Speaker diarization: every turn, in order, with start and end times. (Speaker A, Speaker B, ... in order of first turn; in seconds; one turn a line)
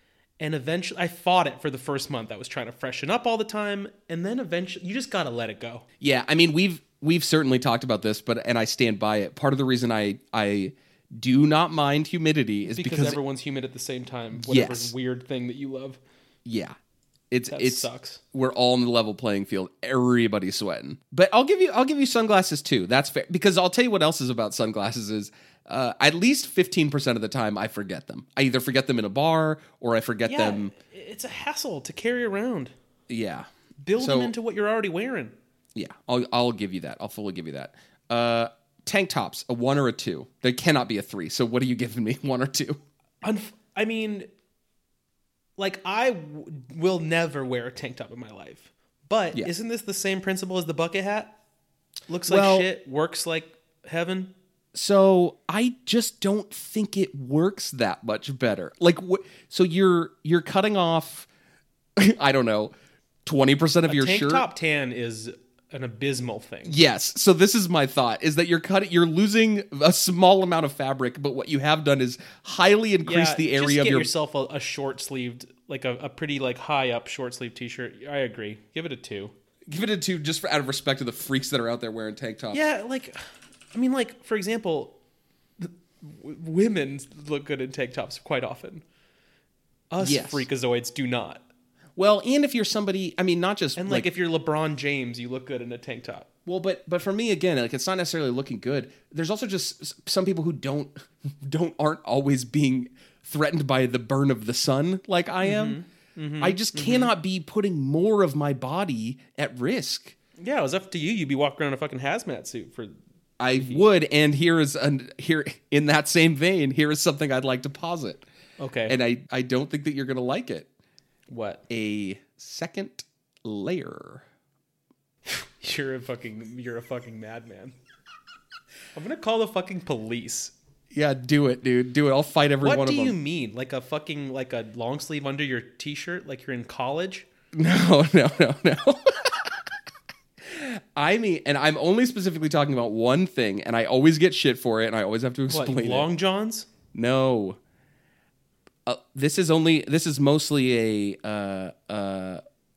Speaker A: 0.4-5.8
Speaker B: 6.0-13.2
Speaker A: 12.7-16.0
Speaker B: 14.3-14.9
Speaker B: 16.4-16.8
Speaker B: 17.3-30.7
Speaker A: 17.5-18.2
Speaker A: 30.3-32.7
Speaker B: 33.1-34.3
Speaker A: 33.8-35.4
Speaker B: 35.8-42.8
Speaker A: 43.2-44.3
Speaker A: 45.6-51.3
Speaker A: 52.1-54.3
Speaker B: 52.3-52.7
Speaker B: 54.7-61.3
Speaker B: 62.0-62.7
Speaker B: 63.2-64.5
Speaker A: 63.9-66.8
Speaker B: 66.7-74.1
Speaker A: 73.0-79.3
Speaker B: 79.7-82.6
Speaker A: 82.5-83.2
Speaker A: 83.7-85.0
Speaker A: 85.6-88.8
Speaker A: 89.9-91.5
Speaker B: 90.0-90.5
Speaker B: 92.0-94.1
Speaker A: 93.8-96.3
Speaker B: 96.5-105.8
Speaker A: 105.4-107.1
Speaker B: 106.4-110.2
Speaker A: 110.4-113.0
Speaker B: 113.4-118.2
Speaker A: 113.5-113.8
Speaker A: 118.6-119.0
Speaker B: 118.9-120.7
Speaker A: 121.3-121.6
Speaker B: 121.7-124.3
Speaker A: 125.3-127.7
Speaker A: 128.9-130.5
Speaker B: 130.9-133.2
Speaker A: 132.6-137.3
Speaker B: 137.5-139.7
Speaker B: 140.4-146.1
Speaker A: 145.5-146.7
Speaker B: 146.9-147.6
Speaker B: 148.9-152.4